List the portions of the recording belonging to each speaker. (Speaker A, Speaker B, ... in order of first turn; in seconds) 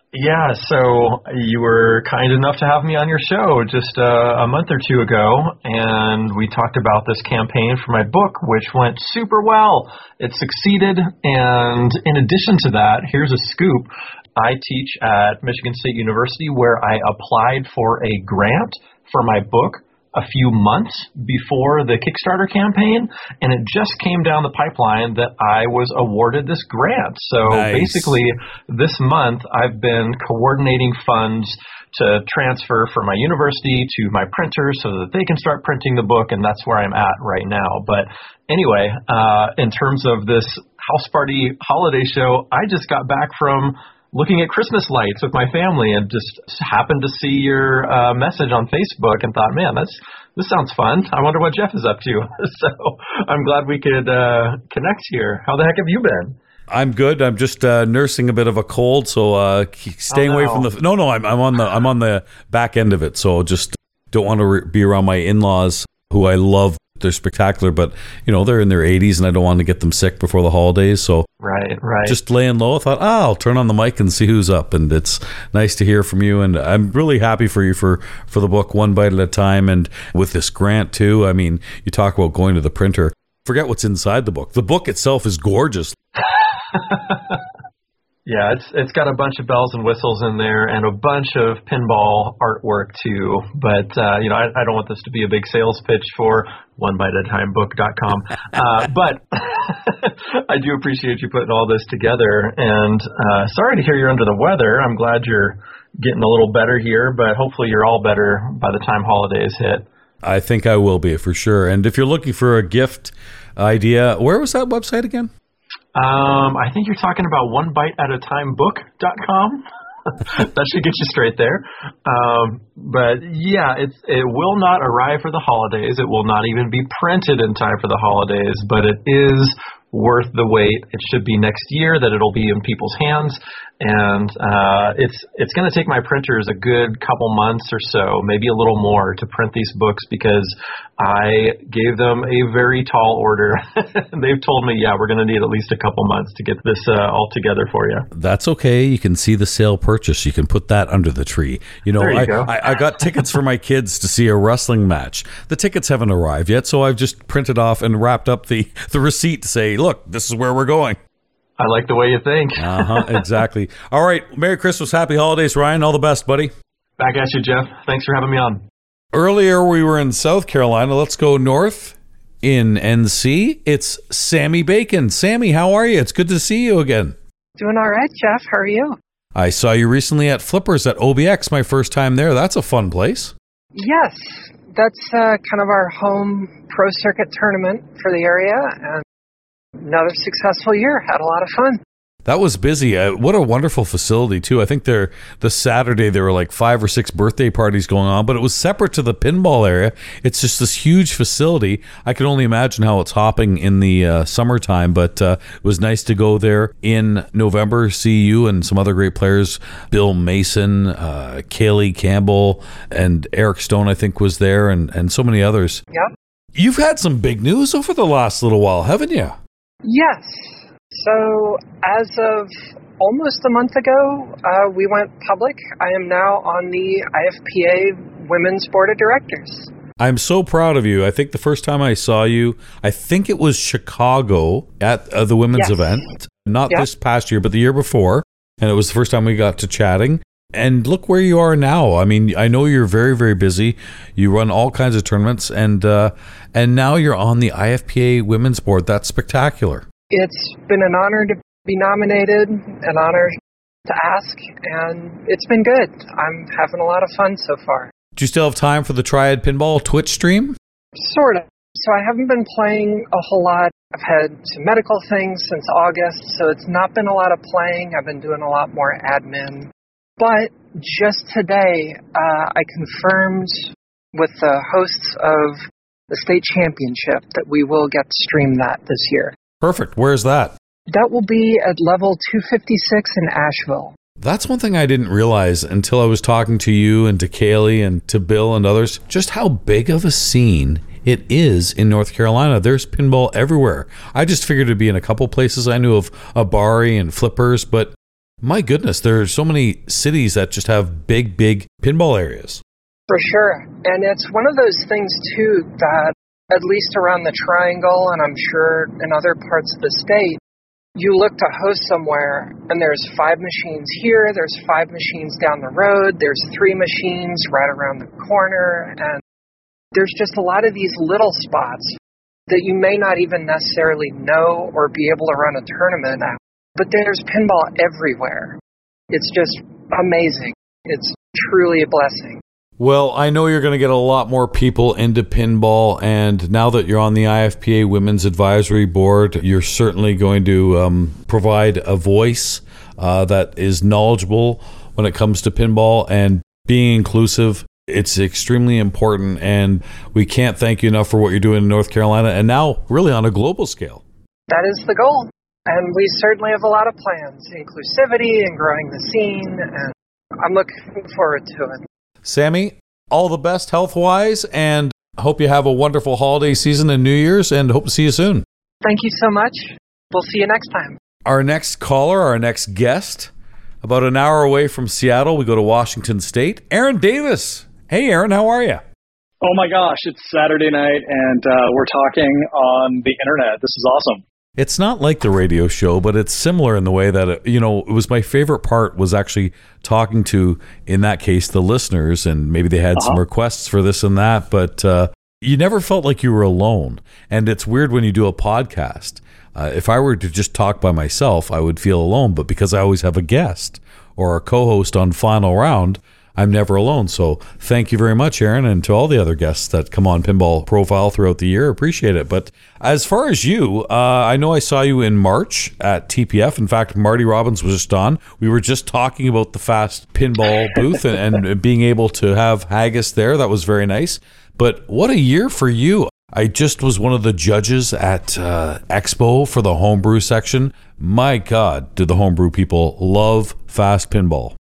Speaker A: 0.1-56.4, 60.1-60.7, 71.4-72.2, 86.7-87.4, 88.3-109.9, 116.0-119.6, 120.2-148.1, 152.0-152.6, 161.6-163.3, 167.0-168.6
Speaker B: 27.5-28.2, 56.7-71.3, 72.1-86.0, 110.2-115.3, 148.1-161.0, 162.6-166.5, 169.1-177.2, 179.4-183.3, 192.2-215.8, 216.6-219.4, 230.0-249.8, 258.1-260.6, 279.6-280.6, 284.2-302.6, 332.8-354.0, 362.2-368.4, 371.2-373.3, 373.8-378.8, 384.6-434.6
Speaker C: 177.6-179.0, 183.8-189.0, 189.8-191.8, 219.8-229.7, 235.6-236.0, 250.1-257.9, 261.0-275.6, 276.1-279.4, 280.9-283.9, 303.1-310.4, 311.0-319.2, 319.9-321.9, 322.5-328.6, 329.1-332.4, 354.5-361.8, 368.8-371.0
Speaker D: 379.4-384.2, 393.0-393.2